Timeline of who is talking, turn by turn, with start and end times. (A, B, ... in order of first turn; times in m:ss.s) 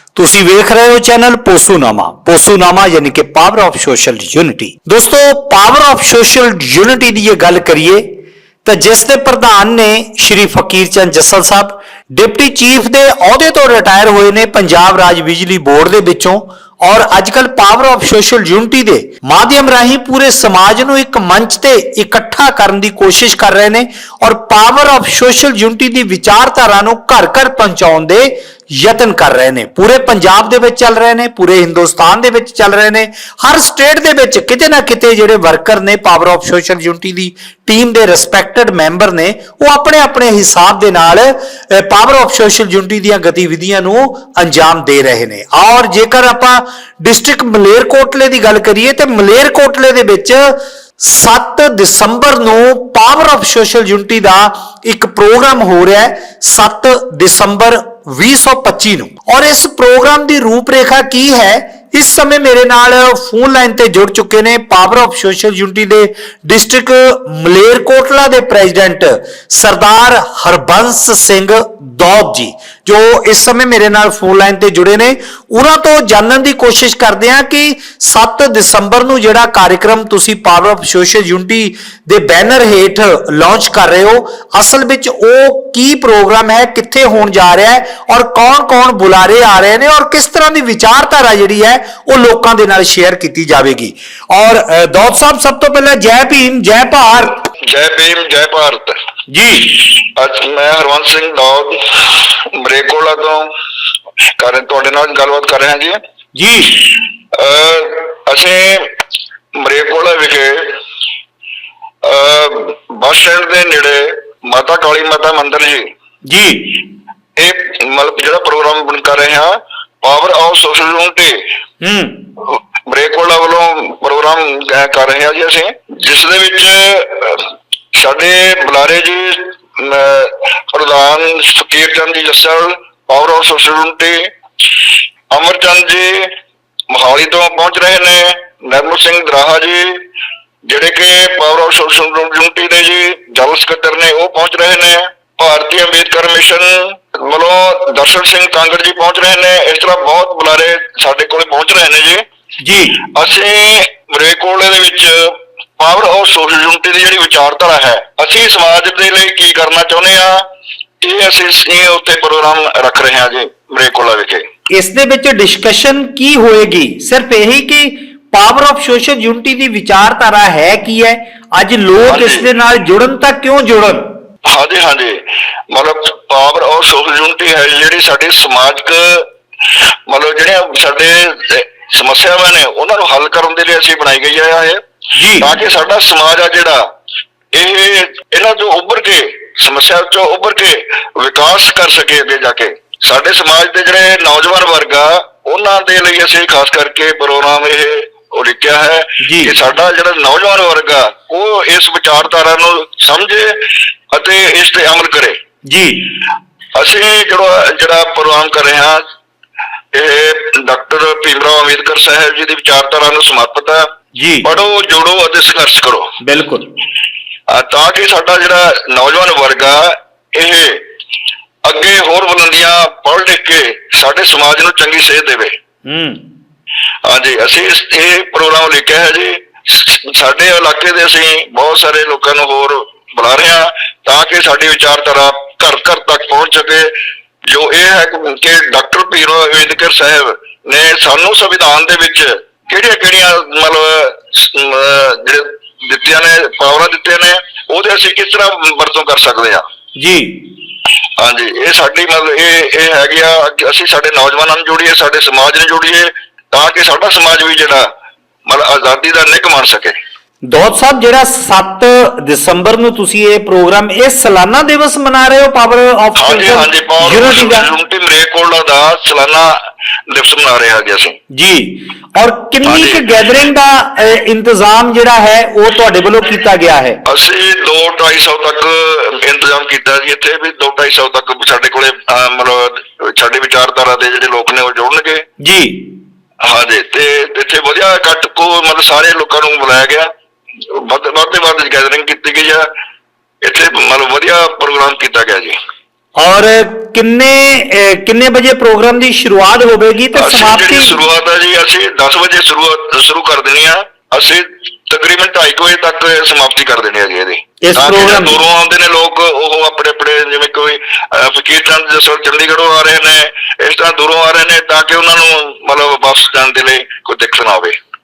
0:00.1-0:08.0 A
0:08.6-1:37.4 A
1:37.7-1:39.0 B
1:39.3-1:39.8 A
1:39.6-1:43.5 B
1:44.4-1:46.0 B
1:46.3-1:46.8 A
1:46.7-1:49.0 B
1:49.6-1:50.8 B
1:52.0-1:55.9 B
1:56.3-1:56.8 A
1:57.4-2:01.5 B
2:01.8-2:02.2 A
2:02.4-2:14.3 B
2:15.3-2:16.3 B
2:16.9-2:20.1 B
2:20.7-2:32.2 B
2:32.6-2:33.0 A
2:33.0-2:40.4 B
2:41.0-2:44.4 B
2:44.7-2:54.0 A
2:52.0-2:52.4 B
2:54.4-3:04.8 B
3:05.2-3:05.5 A
3:05.4-3:06.8 B
3:07.5-3:25.4 B
3:19.2-3:19.6 A
3:25.6-3:26.1 A
3:26.7-3:29.0 B
3:29.9-3:33.9 B
3:34.2-3:34.5 A
3:34.4-3:36.2 B
3:36.2-3:36.7 A
3:37.5-3:40.9 B
3:41.6-3:45.5 B
3:45.8-3:46.2 A
3:47.0-3:56.9 B
3:57.5-4:09.6 B
4:10.0-4:10.4 A
4:11.2-4:17.9 B
4:18.5-4:19.9 B
4:20.5-4:27.7 A
4:26.2-4:31.2 B
4:31.3-4:37.0 A
4:32.6-4:33.2 B
4:37.0-4:45.2 B
4:45.4-4:45.8 A
4:46.4-4:52.7 B
4:53.4-4:55.5 B
4:56.2-5:01.0 A
5:00.1-5:17.8 B
5:07.6-5:08.4 A